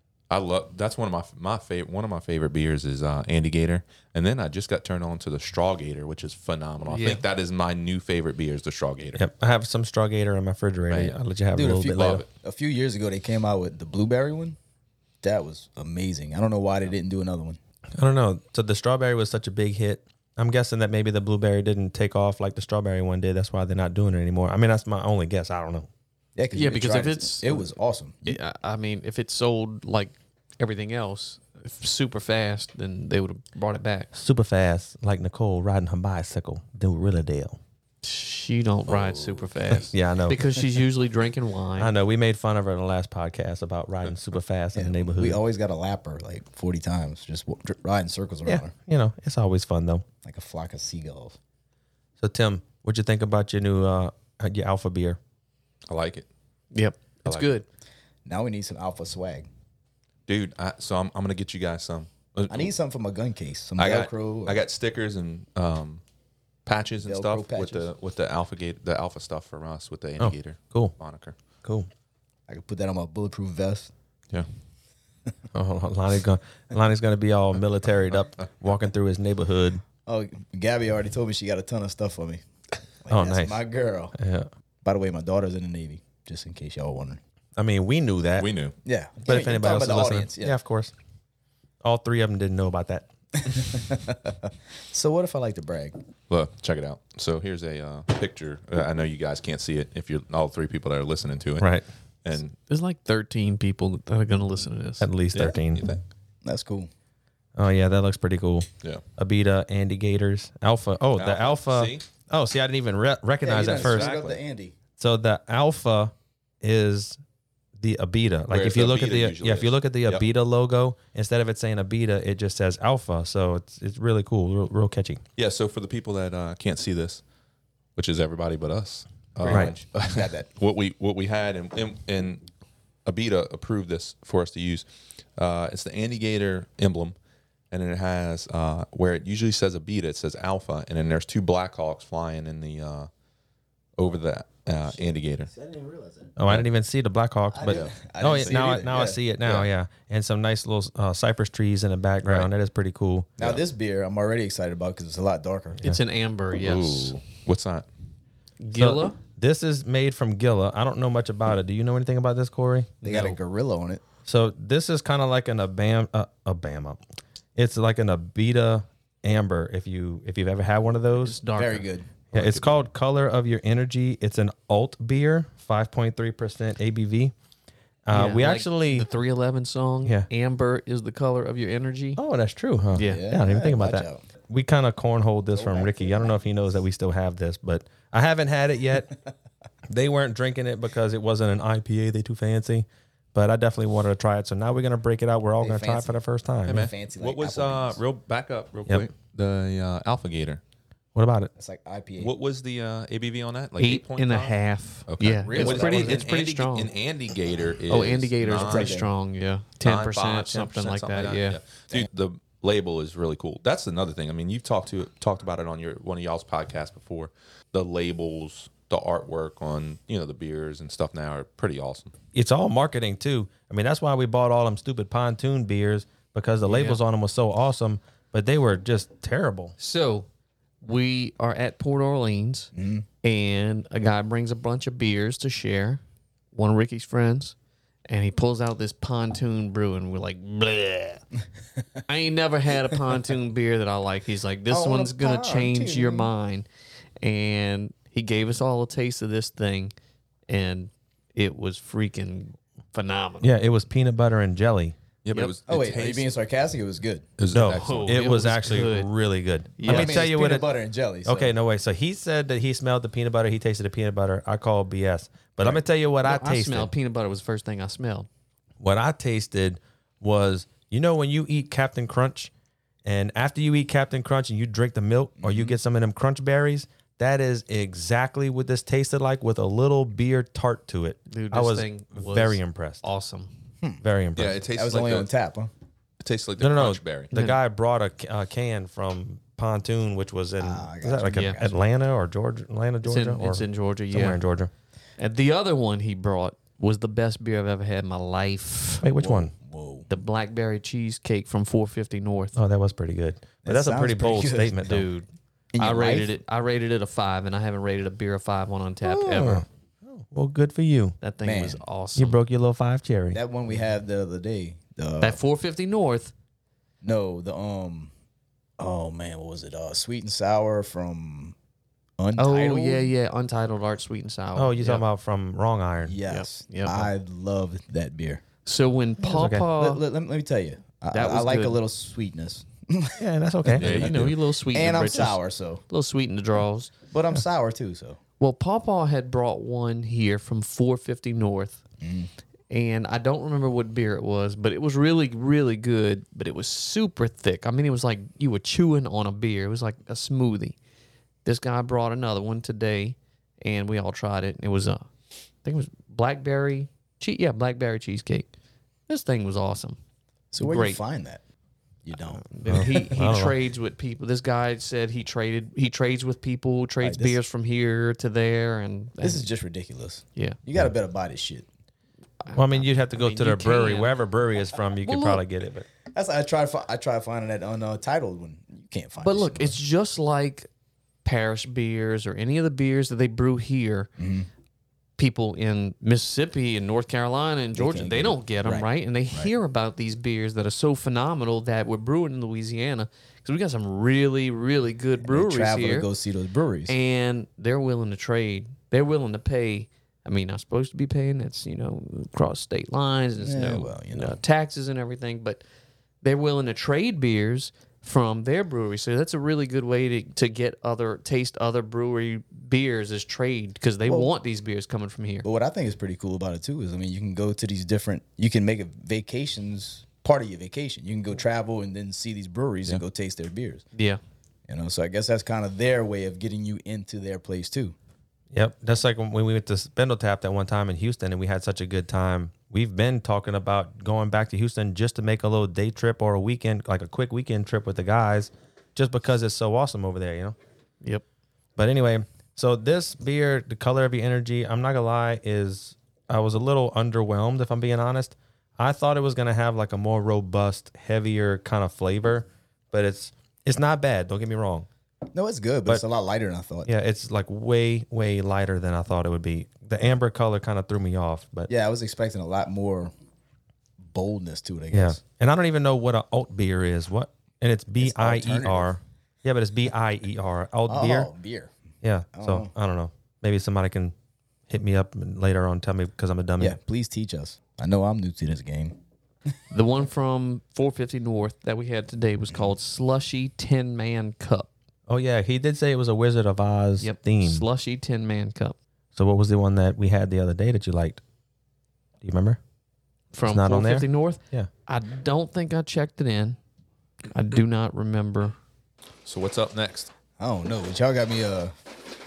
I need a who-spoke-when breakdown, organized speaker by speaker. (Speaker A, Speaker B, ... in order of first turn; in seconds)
Speaker A: 0.3-9.2, 11.9-12.3, 38.9-39.5, 55.9-56.3, 57.2-57.5, 60.3-62.7, 63.8-66.0, 66.7-71.3, 88.4-88.7, 96.3-101.7, 102.2-102.6, 105.3-106.0, 111.2-112.0, 113.6-114.4, 118.5-120.2, 125.4-127.2, 128.0-132.4, 133.1-134.8, 135.4-137.2, 137.7-143.1, 144.0-145.5, 147.7-148.5, 156.6-157.9, 172.3-172.7, 196.7-200.6, 202.2-204.5, 205.1-209.0, 209.8-222.1, 255.2-256.3, 257.4-258.5, 284.4-285.3, 286.2-287.3, 333.8-334.4, 499.2-500.1
Speaker B: 6.9-7.2, 26.5-27.6, 28.2-34.1, 38.0-41.9, 56.7-57.6, 102.7-105.0, 155.8-157.1, 158.6-159.2, 163.1-163.3, 171.1-171.9, 178.1-182.2, 182.9-183.2, 203.8-206.9, 207.9-211.6, 226.7-227.0, 229.8-230.3, 230.8-232.7, 233.2-236.0, 236.5-237.5, 238.1-241.2, 242.1-246.7, 247.2-249.9, 250.5-253.5, 257.8-259.1, 259.8-260.2, 266.2-268.3, 281.3-283.5, 287.3-287.6, 293.0-294.4, 295.2-299.1, 300.1-302.5, 304.8-305.3, 305.8-309.6, 311.2-312.4, 315.2-316.3, 322.4-325.0, 326.3-327.1, 328.6-330.0, 331.1-331.8, 333.9-336.9, 338.4-341.8, 342.7-350.8, 351.4-355.1, 355.6-358.5, 359.1-360.0, 360.6-361.0, 362.4-369.4, 372.4-374.1, 379.2-380.7, 381.2-384.1, 385.2-396.1, 396.9-405.6, 406.2-415.5, 423.9-424.2, 479.7-484.7, 487.0-488.8, 493.3-496.6, 497.3-498.6
Speaker C: 9.2-12.2, 18.0-25.9, 34.2-37.6, 39.9-40.4, 41.8-45.4, 48.5-50.0, 52.2-55.2, 70.2-70.9, 75.5-79.8, 83.1-83.6, 84.1-84.5, 87.6-88.5, 89.2-90.9, 91.8-93.6, 101.6-101.8, 105.0-105.9, 107.6-114.1, 115.0-117.2, 117.8-125.2, 129.5-129.7, 146.4-153.3, 158.8-163.2, 164.2-167.0, 167.6-171.4, 172.3-177.3, 178.1-179.1, 182.2-189.1, 189.9-196.8, 201.2-201.5, 205.6-206.1, 222.3-229.8, 253.4-254.9, 257.5-260.6, 261.2-266.9, 268.8-272.5, 273.0-283.0, 284.0-284.6, 286.6-294.7, 299.0-299.5, 302.5-305.1, 309.1-311.2, 312.2-313.4, 324.5-326.2, 329.2-329.7, 333.2-334.0, 362.7-363.6, 372.5-375.9, 428.5-440.6, 441.8-454.9, 456.9-461.7, 464.9-471.3, 472.0-474.1, 474.7-476.8, 485.1-487.6, 489.2-491.2, 492.2-492.6, 493.4-494.7
Speaker D: 11.6-14.6, 15.2-17.6, 26.4-28.4, 44.8-48.7, 50.2-51.4, 58.2-59.5, 62.5-64.6, 67.0-67.9, 72.5-73.9, 80.0-82.4, 83.0-84.1, 84.8-87.2, 88.8-90.5, 93.5-96.0, 106.4-106.9, 113.4-114.8, 129.4-130.5, 144.8-146.3, 147.5-149.2, 153.4-155.8, 163.0-164.0, 171.5-172.1, 183.0-184.2, 185.6-186.4, 195.6-198.0, 201.6-202.3, 205.5-206.2, 208.6-209.1, 232.8-233.0, 244.7-246.3, 255.7-257.3, 259.8-261.5, 275.4-275.8, 284.7-285.7, 290.6-291.8, 299.2-300.1, 303.6-305.0, 305.7-306.3, 311.4-311.8, 313.3-315.4, 317.0-318.1, 318.8-321.5, 322.2-323.1, 326.0-328.4, 329.8-335.8, 337.1-338.2, 342.0-342.3, 360.5-361.4, 362.0-363.0, 367.0-367.4, 369.2-371.7, 376.1-379.8, 384.2-384.5, 387.7-389.5, 395.2-396.9, 403.4-404.4, 414.1-414.3, 415.4-423.8, 424.7-428.0, 455.3-456.9, 461.7-463.1, 464.0-465.2, 468.0-468.9, 470.9-471.7, 472.3-472.7, 476.6-479.0, 500.4-501.7